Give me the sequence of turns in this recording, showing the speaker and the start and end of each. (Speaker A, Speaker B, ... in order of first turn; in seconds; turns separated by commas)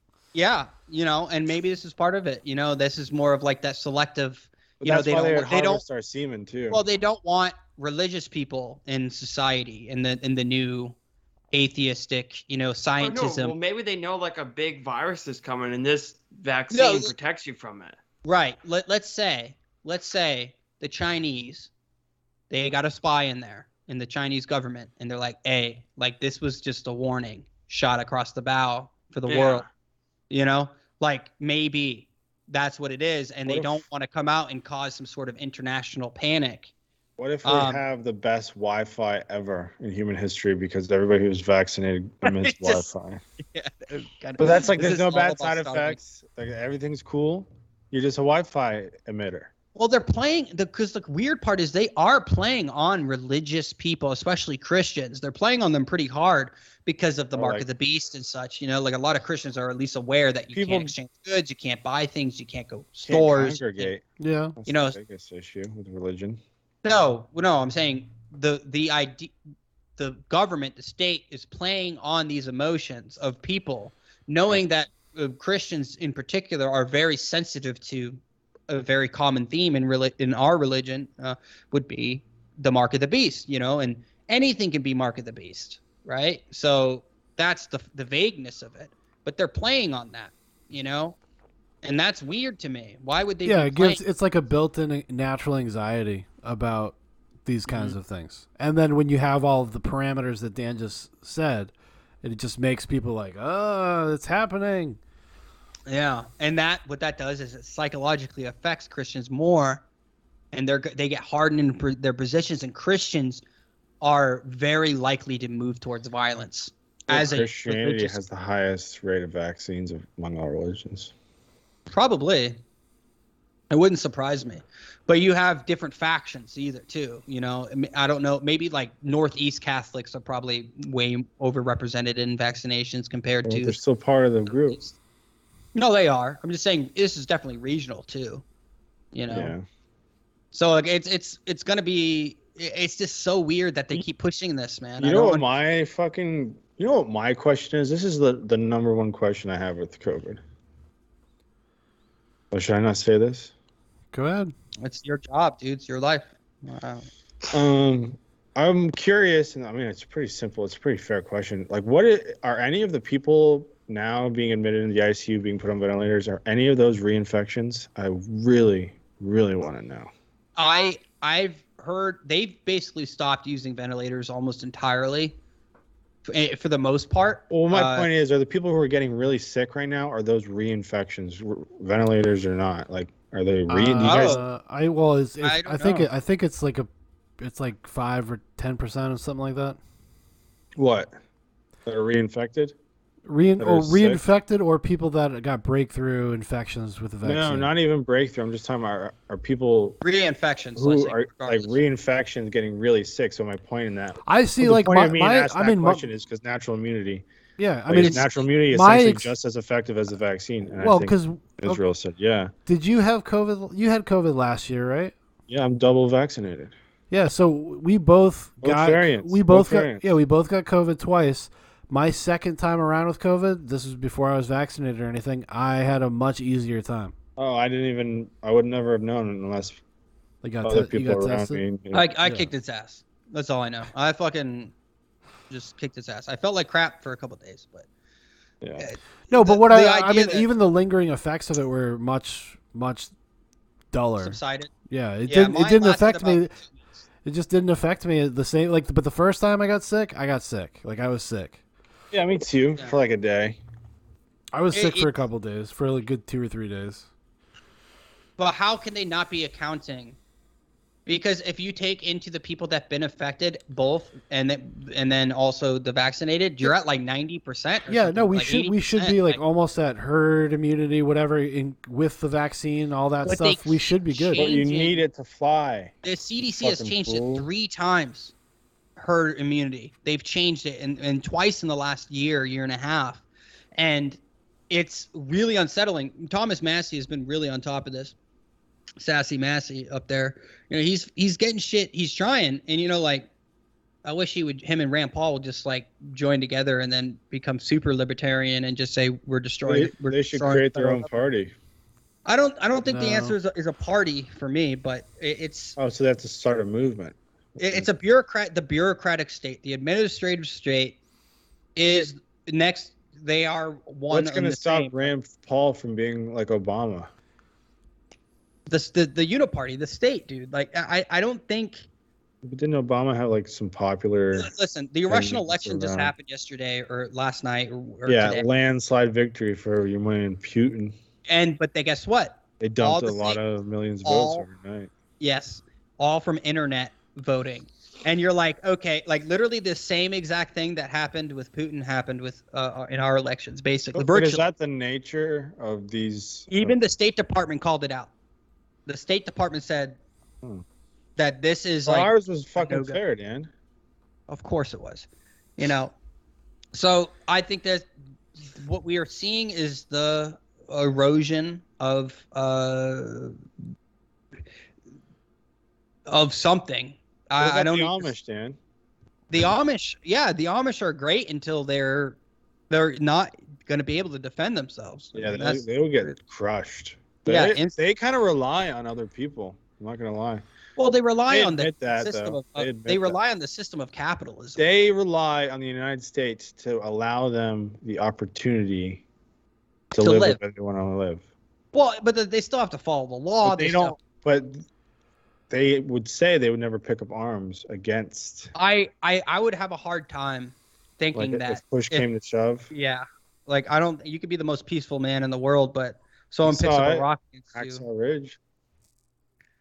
Speaker A: 0.3-5.8, Speaker B: 4.8-6.8, Speaker A: 6.7-10.9, Speaker A: 11.5-13.6, Speaker C: 13.0-17.9, Speaker A: 16.7-17.1, Speaker A: 18.2-21.7, Speaker A: 22.5-29.6, Speaker C: 29.3-29.7, Speaker A: 30.3-36.7, Speaker B: 33.5-33.8, Speaker B: 37.2-43.2, Speaker A: 37.4-37.8, Speaker A: 42.2-42.9, Speaker A: 43.5-46.0, Speaker B: 44.4-49.5, Speaker A: 49.8-63.9, Speaker B: 57.3-57.6, Speaker B: 60.5-60.9, Speaker B: 63.0-64.0, Speaker D: 64.2-64.5, Speaker B: 64.6-66.4, Speaker A: 64.7-65.0, Speaker A: 66.8-69.3, Speaker A: 70.0-91.2, Speaker A: 91.8-94.0, Speaker D: 93.4-101.7, Speaker A: 97.7-98.0, Speaker D: 102.2-105.0, Speaker A: 105.9-109.8, Speaker A: 110.5-113.4, Speaker A: 114.0-118.2, Speaker B: 117.1-121.1, Speaker A: 121.9-122.6, Speaker A: 123.7-133.8, Speaker B: 133.4-134.8, Speaker A: 134.5-134.9, Speaker A: 135.7-138.4, Speaker A: 139.1-139.5, Speaker B: 139.3-139.6, Speaker A: 140.5-145.4, Speaker B: 145.0-150.4, Speaker B: 152.5-153.5, Speaker D: 154.1-154.5, Speaker A: 154.8-157.1, Speaker B: 157.5-170.1, Speaker A: 170.6-175.3, Speaker A: 176.2-178.1, Speaker B: 177.5-184.4, Speaker D: 183.7-186.9, Speaker A: 184.0-184.4, Speaker A: 185.4-186.0, Speaker D: 187.4-189.8, Speaker B: 190.8-191.1, Speaker B: 191.8-192.7, Speaker D: 193.2-197.7, Speaker B: 193.6-194.2, Speaker B: 197.2-200.0, Speaker A: 200.0-201.8, Speaker B: 200.8-207.2, Speaker D: 204.2-206.1, Speaker D: 207.6-209.3, Speaker B: 207.9-212.5, Speaker A: 208.0-208.4, Speaker D: 210.8-211.8, Speaker D: 212.7-215.1, Speaker B: 215.5-216.7, Speaker D: 217.1-227.1, Speaker B: 218.6-220.1, Speaker B: 227.4-229.8, Speaker D: 230.4-231.6, Speaker B: 230.6-232.0, Speaker A: 231.9-234.7, Speaker D: 232.2-232.5, Speaker A: 235.5-237.8, Speaker B: 238.6-238.9, Speaker A: 238.8-240.5, Speaker D: 239.3-243.1, Speaker D: 243.9-244.4, Speaker A: 244.2-244.7, Speaker D: 244.9-246.5, Speaker A: 245.3-246.8, Speaker D: 247.2-251.6, Speaker B: 252.1-253.6, Speaker D: 254.5-257.1, Speaker A: 254.7-255.1, Speaker A: 258.4-260.2, Speaker A: 261.1-269.4, Speaker D: 267.9-274.5, Speaker A: 273.2-275.0, Speaker B: 274.4-275.9, Speaker A: 276.0-278.3, Speaker B: 276.6-277.5, Speaker A: 279.0-283.2, Speaker A: 283.7-284.2, Speaker A: 284.7-288.1, Speaker A: 289.0-293.3, Speaker A: 294.0-301.1, Speaker B: 299.6-301.5, Speaker A: 302.2-305.8, Speaker D: 302.9-303.4, Speaker B: 305.8-307.9, Speaker A: 307.6-311.0, Speaker A: 311.8-315.1, Speaker B: 314.1-317.1, Speaker A: 318.7-321.9, Speaker B: 322.4-324.5, Speaker A: 324.4-328.4, Speaker B: 325.1-326.1, Speaker B: 328.1-330.9, Speaker A: 331.3-333.4, Speaker B: 332.6-334.9, Speaker A: 334.0-334.4, Speaker A: 335.2-344.4, Speaker B: 343.9-346.8, Speaker A: 346.5-348.1, Speaker A: 348.9-350.0, Speaker A: 351.2-353.0, Speaker B: 351.9-353.5, Speaker A: 354.3-355.1, Speaker A: 355.6-355.9, Speaker A: 356.7-357.9, Speaker A: 358.4-363.3, Speaker A: 366.1-368.1, Speaker B: 367.4-368.6, Speaker A: 369.3-372.2, Speaker A: 372.7-376.1, Speaker B: 375.1-380.4, Speaker A: 377.2-377.8, Speaker A: 380.8-384.6, Speaker B: 381.3-383.2, Speaker B: 384.6-389.0, Speaker B: 389.9-391.2, Speaker A: 390.0-390.4, Speaker A: 391.7-393.9, Speaker B: 393.4-394.6, Speaker B: 395.5-398.5, Speaker A: 398.5-402.1, Speaker B: 401.1-402.7, Speaker A: 402.7-407.8, Speaker B: 406.4-408.4